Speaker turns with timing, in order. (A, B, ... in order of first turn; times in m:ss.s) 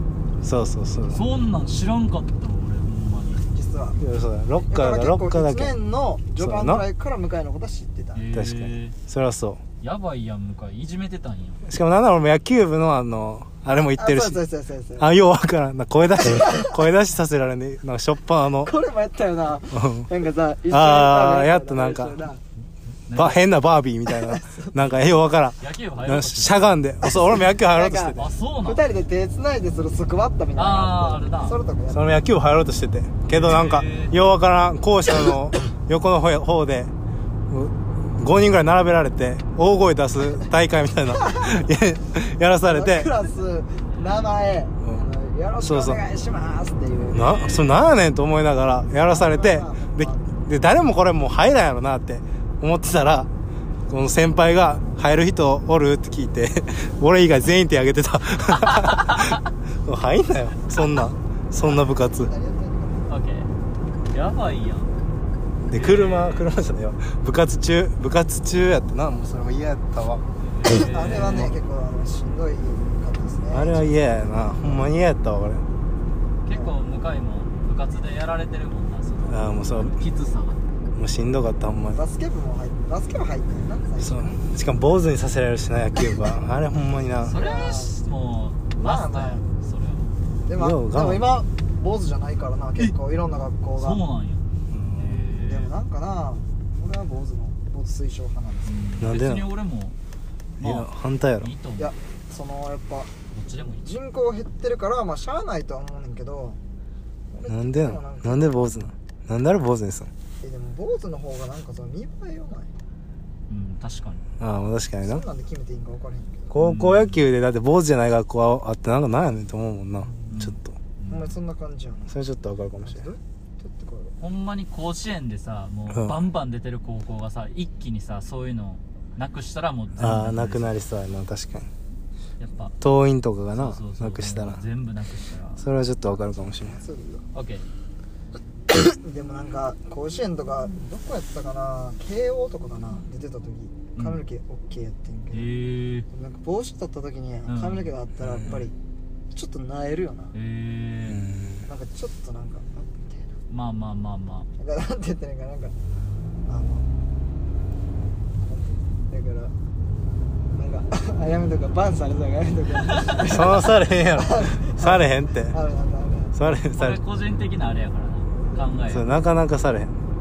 0:00.4-0:01.2 A
0:01.1-0:03.5 B
0:03.5-0:04.0 C
0:04.0-0:05.8 A
0:04.7-0:08.2 C
0:06.4-0:06.8 A
0:08.2-0:09.0 B
0:08.3-0:09.6 A
0:09.8-0:11.6 B
0:11.6-0:14.4 A
0:14.0-0:15.1 C
0:15.0-0:18.7 A
0:16.3-0:16.7 C
0:18.6-0:22.4 C
0:19.7-0:20.1 A
0:20.7-0:22.2 A
0:23.1-0:23.4 B
0:23.2-0:28.3 A
0:24.2-0:24.7 C
0:25.6-0:26.6 B
0:27.0-0:32.2 C
0:28.2-0:28.8 B
0:30.6-0:31.6 B
0:31.9-0:36.9 A
0:33.3-0:34.2 B
0:37.5-0:43.1 A
0:41.2-0:41.6 C
0:42.6-0:47.4 C
0:45.6-0:46.0 A
0:47.1-0:53.3 A
0:47.2-0:47.8 B
0:49.0-0:50.3 C
0:53.9-1:02.3 A
0:58.7-0:59.4 B
1:00.8-1:01.0 B
1:01.8-1:03.1 C
1:03.1-1:03.5 B
1:04.1-1:04.9 B
1:05.6-1:11.5 A
1:05.7-1:06.5 B
1:10.4-1:11.5 B
1:10.7-1:14.9 C
1:13.5-1:15.6 A
1:16.4-1:20.6 B
1:19.3-1:20.0 A
1:21.0-1:22.0 A
1:21.9-1:24.4 C
1:24.0-1:27.3 A
1:27.2-1:30.1 B
1:27.3-1:27.9 C
1:28.8-1:29.4 C
1:30.5-1:34.0 C
1:30.6-1:31.3 A
1:33.8-1:35.7 B
1:35.2-1:38.9 C
1:38.7-1:40.0 B
1:39.0-1:39.5 A
1:40.6-1:41.9 B
1:40.6-1:41.5 A
1:41.8-1:43.1 C
1:43.3-1:43.8 B
1:43.7-1:46.6 C
1:47.3-1:48.9 C
1:47.5-1:50.1 A
1:50.4-1:52.7 C
1:53.5-1:54.3 B
1:54.4-1:55.2 A
1:55.0-1:56.6 C
1:56.5-2:00.7 A
1:56.6-1:57.2 B
2:00.0-2:00.4 C
2:00.3-2:01.4 B
2:01.1-2:02.1 C
2:02.1-2:03.1 A
2:02.8-2:04.2 C
2:04.2-2:10.7 B
2:05.9-2:06.2 A
2:10.0-2:11.7 A
2:12.4-2:12.8 B
2:12.8-2:14.6 A
2:13.5-2:15.6 B
2:15.6-2:16.8 A
2:16.6-2:17.2 C
2:17.3-2:17.7 B
2:18.8-2:25.5 C
2:24.0-2:24.2 B
2:25.3-2:26.1 B
2:26.1-2:28.7 C
2:27.5-2:27.9 B
2:28.2-2:28.6 A
2:29.3-2:30.3 C
2:30.3-2:31.2 B
2:31.0-2:31.6 A
2:31.7-2:33.3 C
2:33.5-2:34.5 B
2:34.6-2:35.8 C
2:36.5-2:36.9 C
2:38.4-2:39.5 C
2:40.5-2:46.4 C
2:43.2-2:45.6 A
2:46.3-2:47.0 A
2:46.7-2:49.1 B
2:48.4-2:48.7 C
2:48.9-2:49.9 A